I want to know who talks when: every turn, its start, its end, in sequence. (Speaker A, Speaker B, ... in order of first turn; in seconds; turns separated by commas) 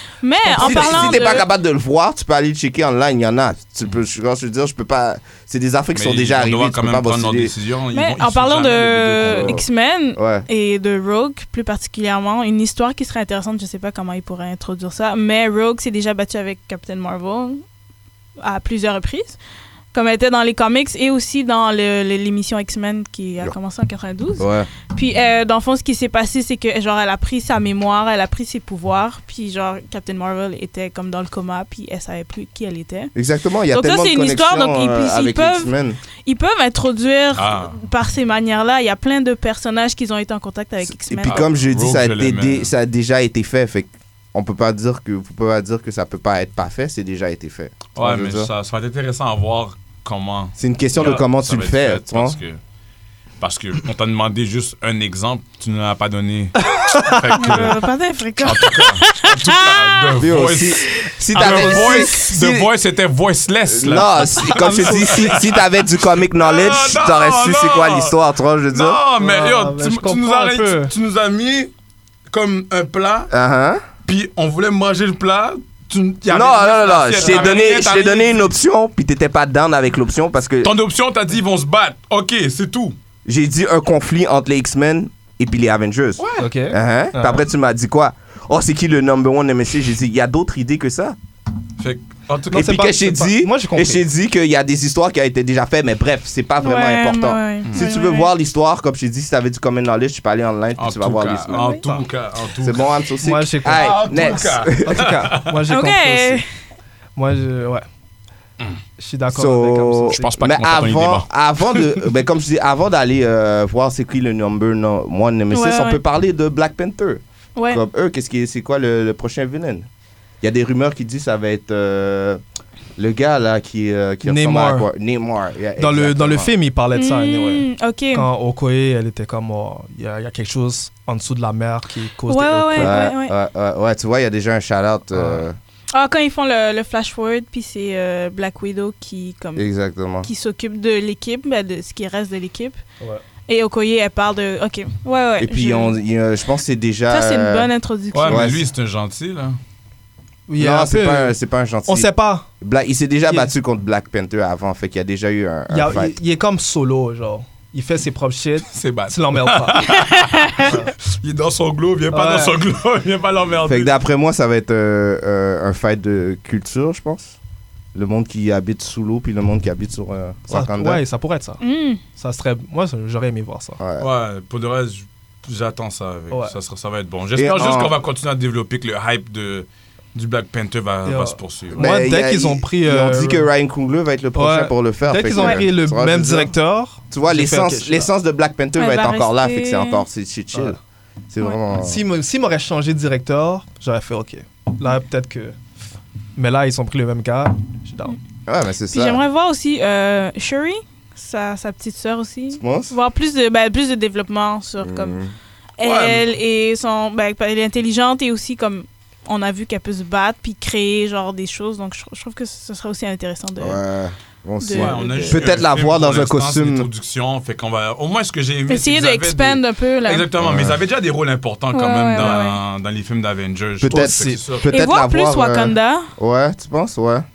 Speaker A: 0.2-1.4, Speaker B: 0.5-7.5, Speaker C: 0.6-1.2, Speaker C: 5.9-9.6, Speaker A: 7.9-17.6, Speaker B: 9.3-9.6, Speaker B: 10.2-10.5, Speaker A: 18.4-19.4, Speaker A: 19.9-33.1, Speaker B: 24.4-24.7, Speaker B: 33.1-36.0, Speaker A: 33.7-35.7, Speaker A: 36.2-41.4, Speaker C: 37.3-37.8, Speaker B: 40.8-48.5, Speaker C: 41.2-42.7, Speaker C: 47.9-52.6, Speaker B: 50.6-52.4, Speaker C: 53.4-57.9, Speaker D: 56.7-57.3, Speaker A: 57.4-60.2, Speaker C: 58.4-65.7, Speaker B: 60.2-62.7, Speaker D: 61.4-62.0, Speaker B: 63.7-69.0, Speaker D: 64.5-65.4, Speaker C: 66.4-68.2, Speaker C: 68.7-71.7, Speaker D: 69.2-70.9, Speaker C: 72.3-73.3, Speaker B: 73.3-73.8, Speaker C: 74.0-78.5, Speaker B: 76.3-80.7, Speaker C: 80.6-83.0, Speaker B: 83.2-91.2, Speaker C: 86.2-86.5, Speaker D: 86.4-87.4, Speaker C: 91.8-92.9, Speaker D: 92.5-94.0, Speaker B: 92.5-102.0, Speaker A: 96.6-98.3, Speaker C: 100.8-102.9, Speaker A: 101.5-101.8, Speaker B: 102.6-105.2, Speaker D: 103.2-104.1, Speaker C: 103.7-105.5, Speaker D: 104.8-106.4, Speaker A: 105.7-106.4, Speaker D: 107.2-107.8, Speaker D: 109.0-110.2, Speaker B: 109.3-119.9, Speaker C: 110.1-111.3, Speaker A: 115.5-116.0, Speaker A: 117.5-117.8, Speaker B: 120.4-122.4, Speaker B: 123.0-126.5, Speaker D: 124.2-124.9, Speaker D: 125.8-132.9, Speaker A: 126.9-128.2, Speaker A: 132.3-133.3, Speaker B: 132.7-135.6, Speaker D: 135.1-135.4, Speaker A: 135.9-139.7, Speaker B: 139.6-140.3, Speaker A: 140.2-142.8, Speaker A: 143.5-145.9, Speaker B: 145.4-147.7, Speaker A: 147.1-148.5, Speaker C: 148.1-149.6, Speaker B: 148.2-148.6, Speaker D: 150.5-151.3, Speaker B: 150.6-156.1, Speaker D: 151.9-152.5, Speaker D: 155.7-159.8, Speaker C: 158.7-163.9, Speaker A: 159.9-160.7, Speaker D: 162.1-162.5, Speaker B: 163.6-167.3, Speaker B: 167.9-171.0, Speaker D: 170.5-171.6, Speaker A: 171.6-172.0, Speaker D: 172.1-173.8, Speaker B: 173.8-174.1, Speaker C: 174.0-181.8, Speaker D: 176.3-176.5, Speaker B: 177.3-177.9, Speaker D: 181.1-183.5, Speaker B: 181.8-186.5, Speaker D: 184.3-188.1, Speaker A: 185.3-185.6, Speaker B: 187.1-190.8, Speaker A: 188.8-190.0, Speaker D: 190.5-190.8, Speaker B: 191.3-192.0, Speaker D: 191.7-195.6, Speaker D: 196.3-198.2, Speaker B: 198.5-199.2, Speaker A: 198.9-205.2, Speaker B: 202.5-202.9, Speaker B: 204.8-205.3, Speaker A: 205.8-213.8, Speaker C: 205.8-206.3, Speaker B: 213.6-216.9, Speaker A: 214.6-215.4, Speaker C: 214.7-224.7, Speaker A: 218.7-220.3, Speaker B: 220.4-220.8, Speaker A: 221.7-222.6, Speaker B: 223.8-227.2, Speaker A: 224.7-226.1